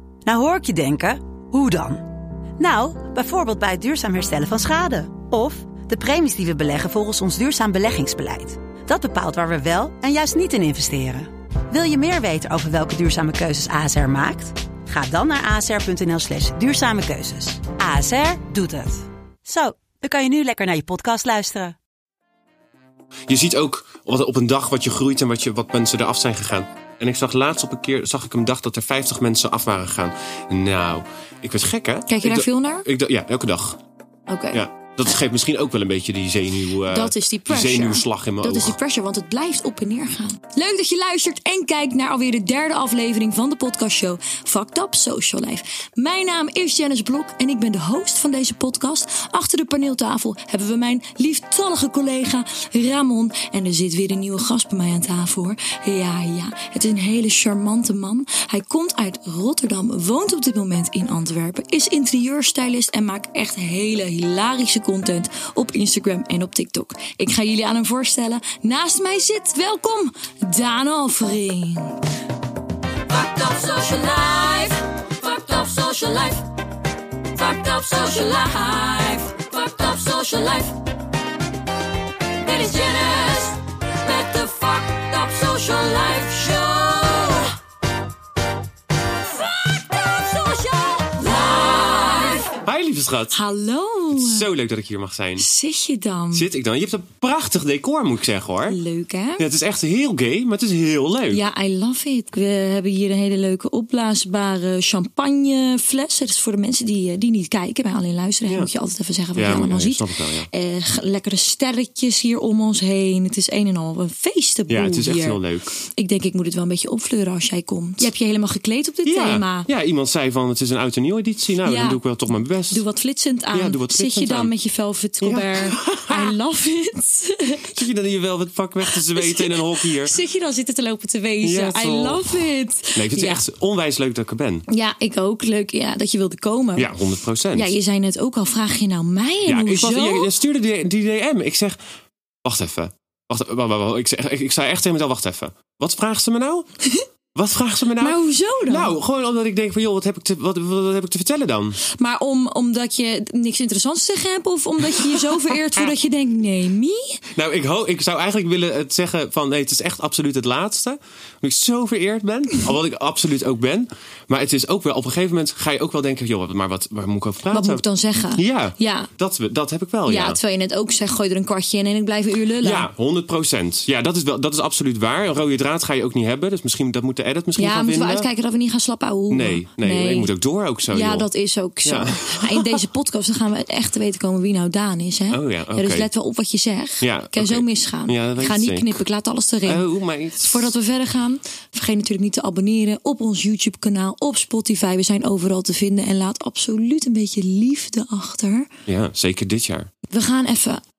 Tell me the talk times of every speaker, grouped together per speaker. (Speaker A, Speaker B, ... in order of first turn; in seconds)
Speaker A: 0.2-2.1, 2.6-21.8
Speaker B: 23.3-33.8, 34.5-38.8, 92.6-93.4, 94.1-95.5, 96.3-98.8, 99.4-101.4, 109.4-110.5, 114.7-115.7, 119.1-122.8, 123.5-124.5, 125.2-126.4, 127.7-130.1, 131.4-134.7, 136.8-137.8, 139.5-141.8, 142.4-146.7, 147.3-151.8, 155.0-155.9, 157.3-167.8, 168.3-170.4, 172.6-178.3, 179.3-181.3, 181.8-182.8, 185.3-186.1, 187.0-189.0, 189.7-190.7, 198.9-199.9
Speaker C: 32.1-32.9, 34.3-34.6, 36.9-72.0, 73.1-76.5, 77.3-80.8, 82.4-87.5, 89.7-92.6, 93.3-94.5, 95.4-96.5, 98.7-99.5, 101.3-119.7, 121.6-122.0, 122.7-127.8, 128.8-133.4, 134.7-137.0, 137.5-140.3, 148.0-148.9, 152.0-157.2, 167.5-169.1, 170.1-172.9, 177.6-180.3, 180.9-189.9, 190.4-198.7, 200.1-200.8